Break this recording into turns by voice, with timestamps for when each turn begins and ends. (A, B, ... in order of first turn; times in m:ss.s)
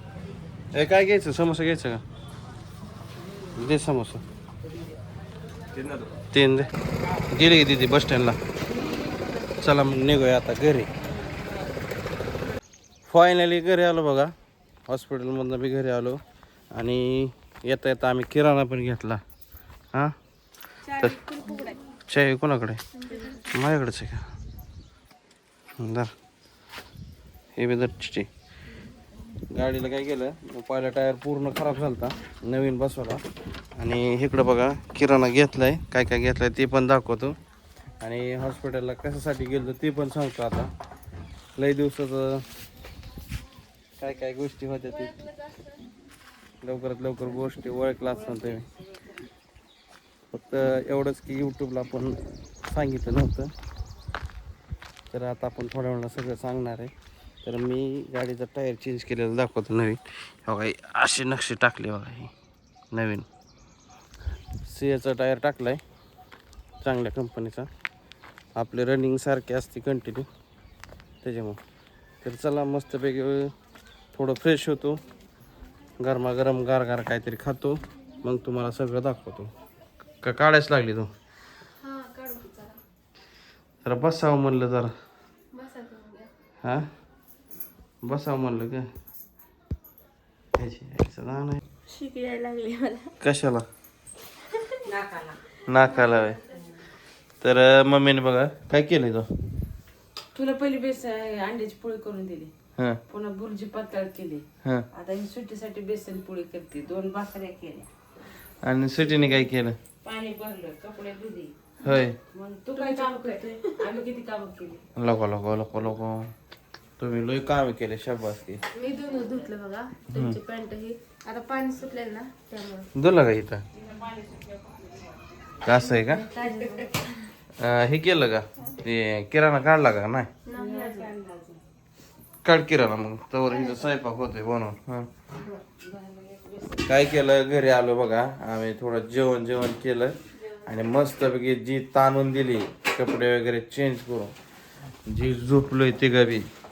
0:00.7-0:02.0 A
0:03.6-0:04.2 A
0:06.3-0:06.7 A
0:07.3-0:08.4 A
0:09.6-0:10.9 A
0:13.1-0:14.3 A
0:14.9-0:16.2 A
0:16.7-0:19.2 A
0:20.9-0:21.2 A
0:21.3-0:21.8 B
0:22.1-0:22.8 A
0:23.0-0:23.5 B
0:23.5-0:24.3 A
0:25.8-0:26.1 A
0:27.6-0:28.3 A
0:29.5-0:33.2 A
0:33.8-0:37.4 A
0:38.0-0:40.7 A
0:41.6-0:42.4 A
0:44.0-0:45.2 A
0:45.2-0:45.6 B
0:46.6-0:48.7 A
0:48.3-0:48.8 C
0:50.3-0:53.5 A
0:55.1-0:56.9 A
0:57.4-1:02.3 A
1:02.9-1:03.3 A
1:04.6-1:05.8 A
1:06.8-1:07.7 A
1:08.6-1:10.3 A
1:11.2-1:11.6 A
1:12.2-1:13.5 A
1:14.1-1:15.0 A
1:16.0-1:19.5 A
1:20.2-1:21.1 A
1:21.8-1:22.8 B
1:23.8-1:24.9 A
1:25.5-1:26.3 B
1:28.0-1:28.9 A
1:30.6-1:31.6 A
1:31.9-1:33.2 B
1:33.2-1:33.6 A
1:34.5-1:34.8 B
1:34.9-1:35.4 C
1:35.7-1:36.4 A
1:35.8-1:36.4 B
1:37.4-1:39.3 A
1:40.3-1:42.5 C
1:43.1-1:47.9 C
1:48.6-1:49.8 A
1:50.0-1:51.5 C
1:51.8-1:52.2 A
1:52.3-1:54.8 C
1:52.8-1:53.8 B
1:55.0-1:56.3 A
1:57.0-1:58.6 A
1:58.8-2:02.9 B
2:00.1-2:00.4 A
2:03.0-2:03.6 A
2:03.8-2:05.2 C
2:05.6-2:06.3 A
2:05.7-2:07.3 B
2:06.6-2:06.8 C
2:07.6-2:10.3 A
2:10.5-2:11.1 B
2:10.5-2:11.6 C
2:12.4-2:15.1 A
2:15.5-2:17.0 C
2:16.9-2:24.4 A
2:25.1-2:26.5 A